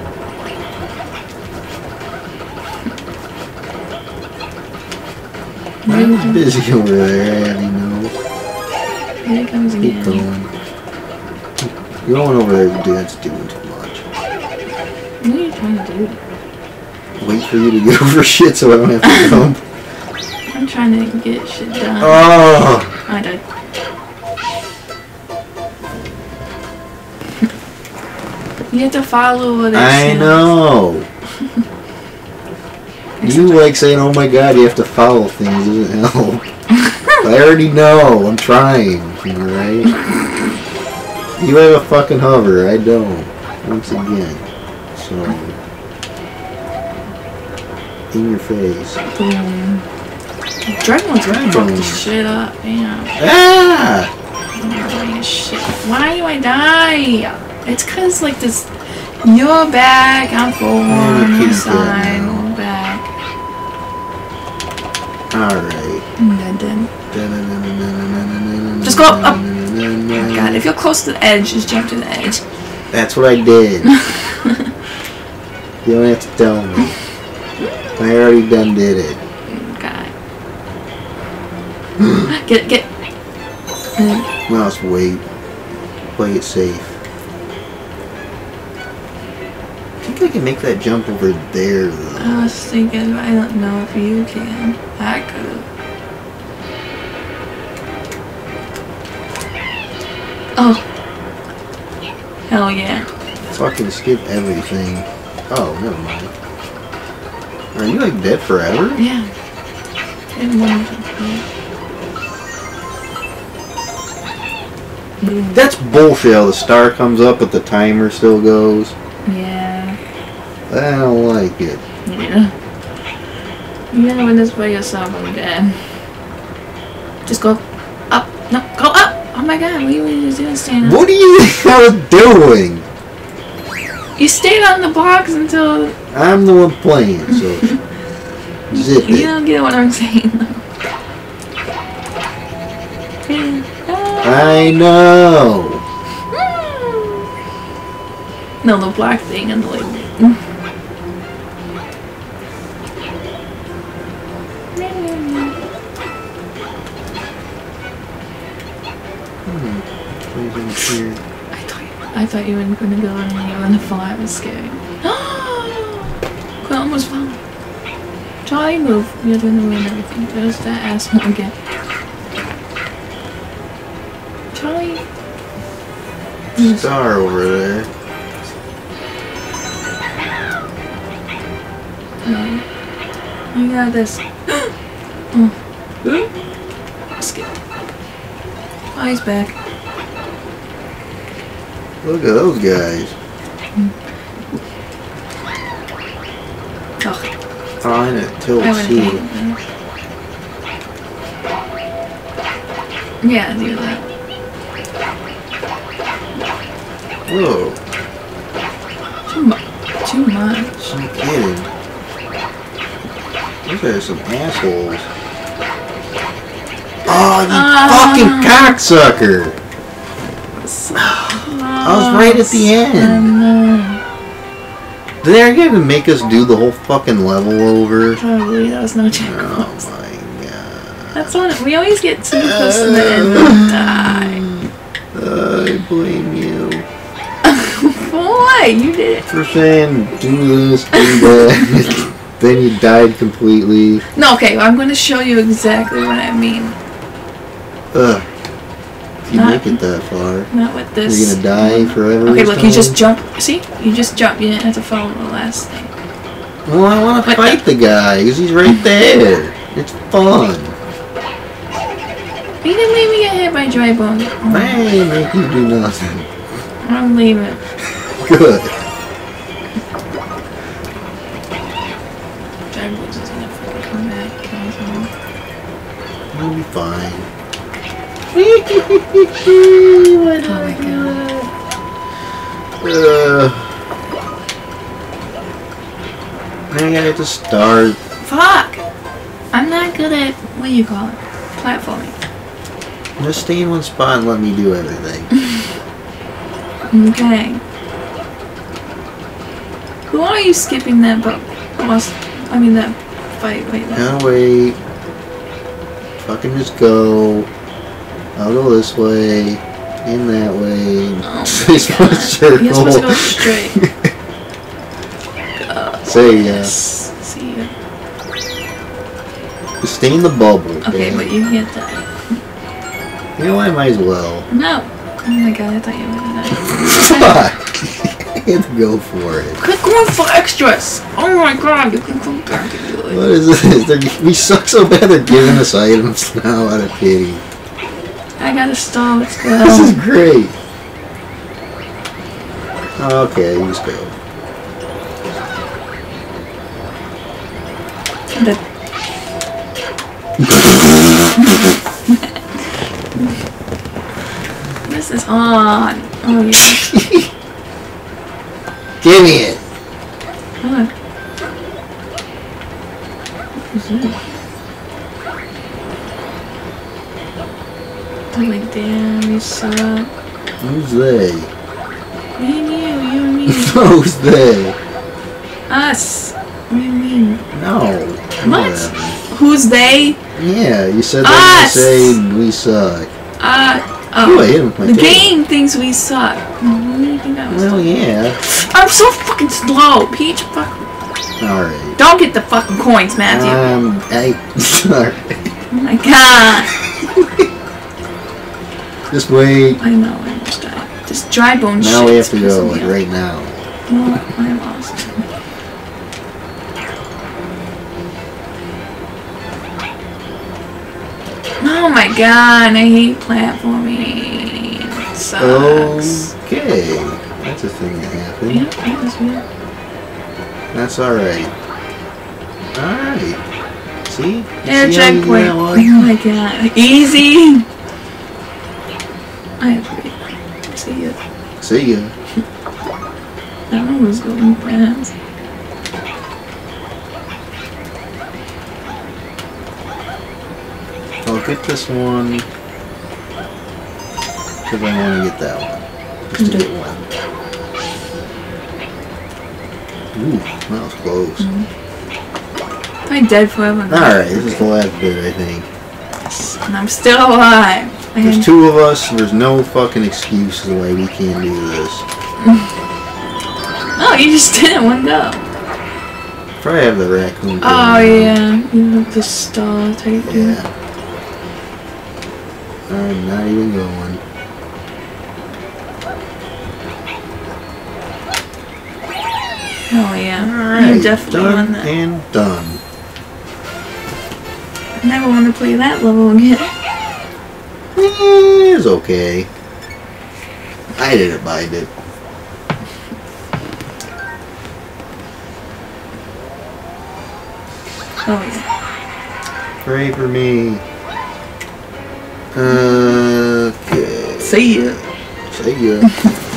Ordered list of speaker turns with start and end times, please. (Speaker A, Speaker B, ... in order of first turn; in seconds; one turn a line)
Speaker A: 5.8-6.4
Speaker B: 5.9-8.1
Speaker A: 9.2-10.3
Speaker B: 9.8-10.5
Speaker B: 11.6-14.1
Speaker A: 15.2-16.2
Speaker B: 17.2-19.6
Speaker A: 19.0-19.3
Speaker A: 20.5-22.4
Speaker B: 22.0-22.9
Speaker A: 23.1-23.4
Speaker A: 28.7-30.5
Speaker B: 29.7-31.1
Speaker A: 33.2-33.8
Speaker B: 33.2-36.5
Speaker B: 37.2-39.9
Speaker B: 41.4-45.6
Speaker B: 48.1-49.0
Speaker A: 49.1-49.9
Speaker A: 50.7-53.2
Speaker B: 51.2-52.1
Speaker B: 53.2-54.1
Speaker A: 54.5-58.7
Speaker A: 59.2-63.0
Speaker B: 60.9-62.5
Speaker B: 65.3-66.0
Speaker A: 66.2-66.9
Speaker B: 67.1-70.6
Speaker A: 68.8-69.4
Speaker A: 70.2-72.4
Speaker B: 72.9-73.9
Speaker A: 73.9-74.7
Speaker B: 75.8-77.0
Speaker B: 78.0-79.2
Speaker A: 79.5-80.1
Speaker A: 82.3-82.9
Speaker A: 84.0-84.3
Speaker B: 84.5-85.2
Speaker B: 86.1-87.0
Speaker B: 90.0-92.5
Speaker A: 92.2-95.7
Speaker A: 100.6-100.8
Speaker A: 102.5-103.1
Speaker B: 103.5-106.3
Speaker B: 107.7-109.0
Speaker A: 109.0-109.3
Speaker A: 110.3-111.4
Speaker A: 115.2-115.6
Speaker B: 115.5-119.0
Speaker A: 119.2-120.0
Speaker B: 120.7-121.8
Speaker A: 122.0-122.5
Speaker A: 123.9-125.9
Speaker A: 127.3-131.0
Speaker B: 130.8-132.9
Speaker A: 134.2-136.0
Speaker B: 136.1-137.7
Speaker B: 138.7-139.3
Speaker A: 138.7-140.6
Speaker A: 143.3-144.8
Speaker B: 144.2-145.8
Speaker A: 146.3-147.2
Speaker A: 148.6-150.4
Speaker A: 154.7-155.6
Speaker B: 159.4-161.2
Speaker A: 161.5-167.4
Speaker A: 168.4-171.5
Speaker A: 174.5-175.0
Speaker A: 176.6-176.9
Speaker B: 176.6-177.9
Speaker A: 182.2-182.6
Speaker A: 183.5-184.7
Speaker A: 185.3-186.3
Speaker A: 187.2-187.5
Speaker A: 188.9-189.6
Speaker B: 192.0-193.2
Speaker A: 197.0-197.3
Speaker B: 197.8-199.2
Speaker A: 198.6-199.6
Speaker A: 203.2-204.1
Speaker B: 207.3-207.8
Speaker A: 209.3-210.9
Speaker B: 210.8-211.7
Speaker B: 213.7-215.1
Speaker B: 217.1-219.6
Speaker A: 217.1-218.8
Speaker A: 220.6-224.0
Speaker B: 221.8-223.3
Speaker B: 225.2-228.2
Speaker A: 228.1-229.9
Speaker B: 229.1-231.4
Speaker A: 231.1-234.4
Speaker B: 232.3-236.9
Speaker A: 237.4-239.3
Speaker B: 239.3-244.0
Speaker A: 240.9-242.0
Speaker A: 244.1-246.8
Speaker B: 247.9-248.3
Speaker B: 249.2-250.5
Speaker A: 249.3-249.8
Speaker A: 250.5-255.9
Speaker B: 251.1-253.0
Speaker B: 256.7-260.8
Speaker A: 257.2-257.6
Speaker A: 262.6-264.8
Speaker B: 264.5-266.3
Speaker A: 266.8-267.6
Speaker B: 268.2-268.8
Speaker A: 272.7-275.1
Speaker B: 276.3-277.3
Speaker B: 278.3-281.5
Speaker A: 280.4-281.2
Speaker B: 282.8-283.8
Speaker B: 286.7-288.0
Speaker A: 288.2-288.8
Speaker A: 289.5-292.1
Speaker B: 293.2-295.3
Speaker A: 296.9-297.6
Speaker A: 300.1-304.1
Speaker B: 303.9-304.8
Speaker B: 306.2-307.5
Speaker B: 308.4-314.1
Speaker A: 311.2-313.8
Speaker A: 315.6-317.7
Speaker B: 316.1-316.8
Speaker B: 319.8-321.3
Speaker A: 320.8-322.1
Speaker B: 323.4-324.5
Speaker A: 324.5-327.4
Speaker B: 326.7-329.6
Speaker A: 329.6-333.2
Speaker B: 333.1-337.4
Speaker A: 338.4-340.0
Speaker B: 339.6-340.5
Speaker B: 343.0-344.2
Speaker B: 350.4-351.5
Speaker A: 351.4-352.4
Speaker A: 354.9-357.1
Speaker B: 356.8-357.0
Speaker B: 359.0-359.6
Speaker A: 360.6-360.9
Speaker A: 363.7-364.2
Speaker A: 368.3-370.1
Speaker B: 370.6-371.5
Speaker A: 372.4-373.8
Speaker B: 373.5-374.8
Speaker A: 375.7-377.4
Speaker B: 377.5-379.2
Speaker A: 378.4-380.2
Speaker B: 380.4-383.1
Speaker A: 381.2-382.2
Speaker A: 383.4-390.9
Speaker B: 384.2-385.4
Speaker B: 387.5-388.4
Speaker B: 391.4-392.0
Speaker A: 392.0-393.7
Speaker B: 393.3-395.5
Speaker A: 395.7-396.7
Speaker B: 397.0-397.5
Speaker B: 399.1-399.8
Speaker A: 399.8-402.9
Speaker B: 401.8-403.6
Speaker A: 403.9-405.2
Speaker A: 411.6-416.3
Speaker B: 415.4-418.7
Speaker A: 418.5-419.4
Speaker B: 420.7-421.5
Speaker B: 422.7-423.4
Speaker B: 424.1-426.1
Speaker A: 424.6-427.7
Speaker A: 429.6-431.2
Speaker B: 431.6-432.1
Speaker A: 433.7-435.1
Speaker B: 441.2-442.5
Speaker B: 444.7-447.1
Speaker A: 446.4-446.7
Speaker B: 450.1-451.5
Speaker A: 451.4-451.7
Speaker A: 453.1-454.6
Speaker B: 453.9-455.7
Speaker A: 456.3-458.5
Speaker B: 458.2-462.1
Speaker A: 464.0-465.5
Speaker B: 466.6-468.4
Speaker A: 467.6-470.6
Speaker B: 470.2-470.7
Speaker B: 472.9-474.2
Speaker A: 479.9-481.9
Speaker B: 480.4-482.8
Speaker A: 485.0-486.7
Speaker B: 487.9-489.5
Speaker B: 491.0-491.9
Speaker A: 498.3-498.7
Speaker B: 499.8-500.8
Speaker B: 502.5-506.3
Speaker A: 504.4-505.0